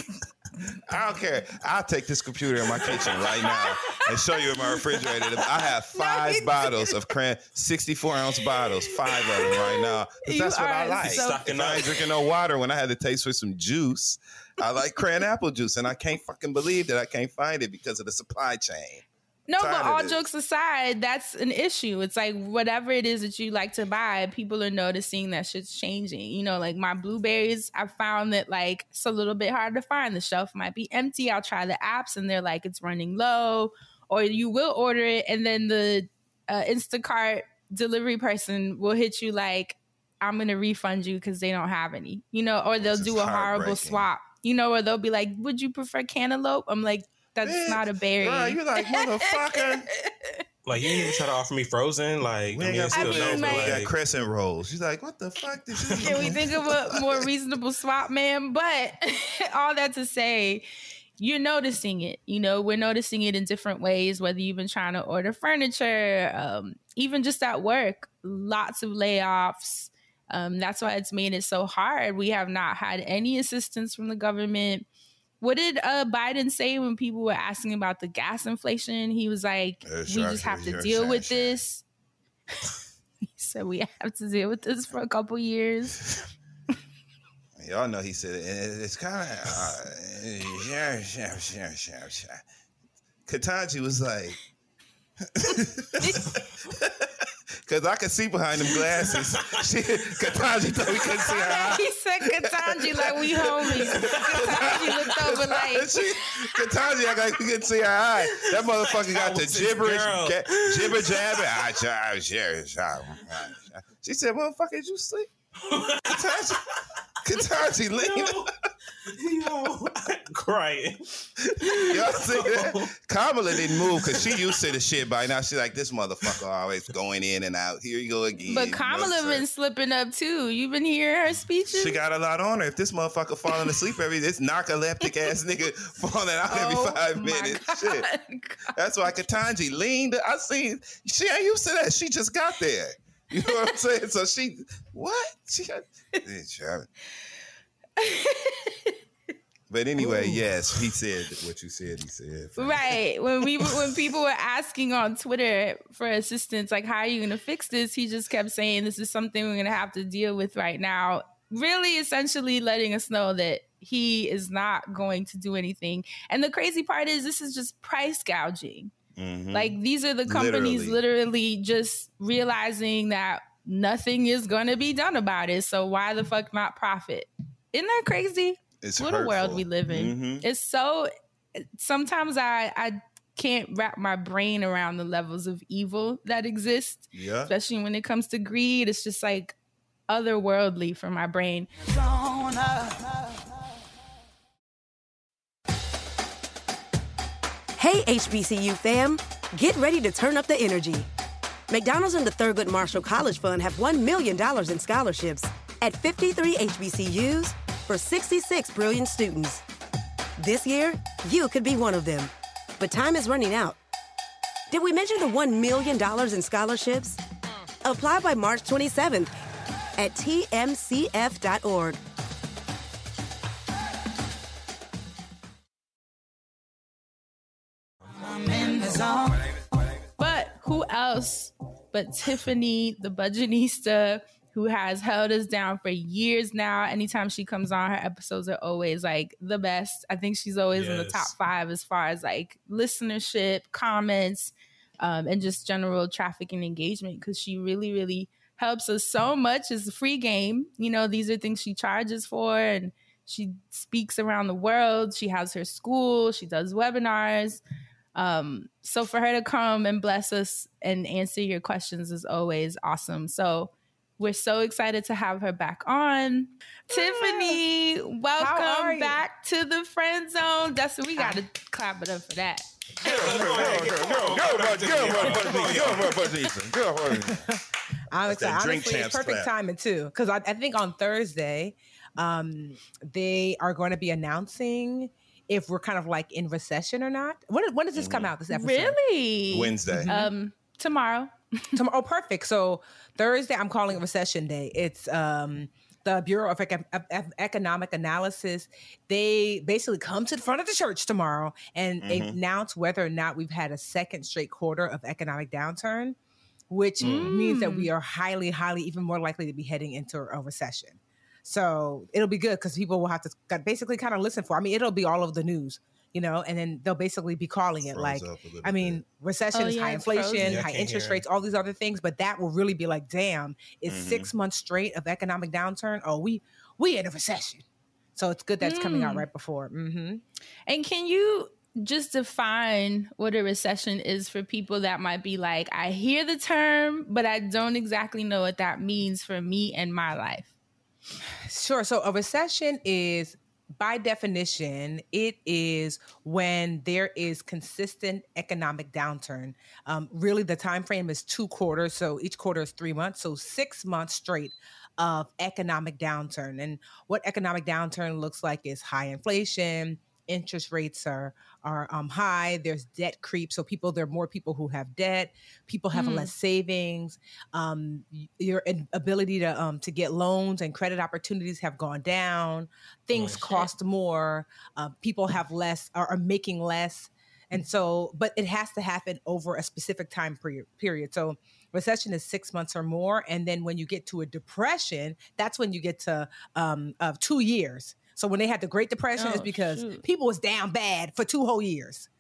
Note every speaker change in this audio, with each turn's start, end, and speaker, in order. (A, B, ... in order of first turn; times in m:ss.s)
0:00.9-0:19.1 A
0:03.1-0:06.9 B
0:08.5-0:11.9 B
0:11.0-0:11.9 C
0:19.5-0:50.9 B
0:19.6-0:20.2 A
0:42.8-0:44.1 A
0:47.4-0:49.9 A
0:50.6-0:53.9 C
0:52.5-0:57.3 A
0:52.9-0:53.8 B
0:56.0-1:00.6 B
1:01.2-1:14.9 B
1:15.4-1:21.8 B
1:19.8-1:21.6 A
1:23.4-1:26.0 B
1:27.6-1:32.4 A
1:33.3-1:34.4 A
1:35.3-1:55.3 A
1:36.0-1:36.4 B
1:41.2-1:46.9 B
1:48.5-1:51.5 C
1:55.7-1:56.4 C
1:56.0-1:58.5 A
1:57.6-2:02.9 C
2:01.5-2:09.4 A
2:03.5-2:04.6 C
2:08.5-2:12.0 B
2:11.7-2:18.1 A
2:16.5-2:18.7 B
2:18.7-2:26.9 A
2:28.0-2:29.0 B
2:29.7-2:33.0 A
2:30.0-2:30.4 D
2:32.6-2:48.9 B
2:33.6-2:33.9 A
2:49.2-2:51.0 A
2:49.5-3:09.6 B
2:58.8-3:00.4 A
3:07.1-3:07.5 A
3:10.1-3:11.7 B
3:17.8-3:21.1 E
3:21.7-3:29.6 E
3:30.4-3:33.8 E
3:34.7-3:37.2 E
3:37.8-3:39.3 E
3:40.0-3:42.0 E
3:50.2-4:17.6 B
4:00.7-4:01.3 C
4:18.1-4:32.7 B
4:26.9-4:27.6 D
4:28.4-4:29.2 D
4:31.2-4:31.4 D
4:33.0-4:36.2 C
4:33.0-4:37.5 A
4:37.1-4:49.0 D
4:38.2-4:39.5 A
4:47.9-4:48.3 A
4:48.5-4:51.8 B
4:49.5-4:50.1 A
4:49.9-4:50.3 D
4:51.7-5:06.2 D
5:02.0-5:02.4 A
5:06.7-5:27.6 D
5:07.0-5:07.3 C
5:07.0-5:07.9 B
5:17.8-5:19.0 A
5:19.5-5:20.6 B
5:20.4-5:21.2 C
5:23.9-5:24.3 A
5:28.1-5:30.2 D
5:28.6-5:29.3 B
5:30.7-5:40.5 B
5:41.4-6:32.1 D
6:05.9-6:06.3 B
6:13.1-6:13.6 C
6:29.2-6:30.0 B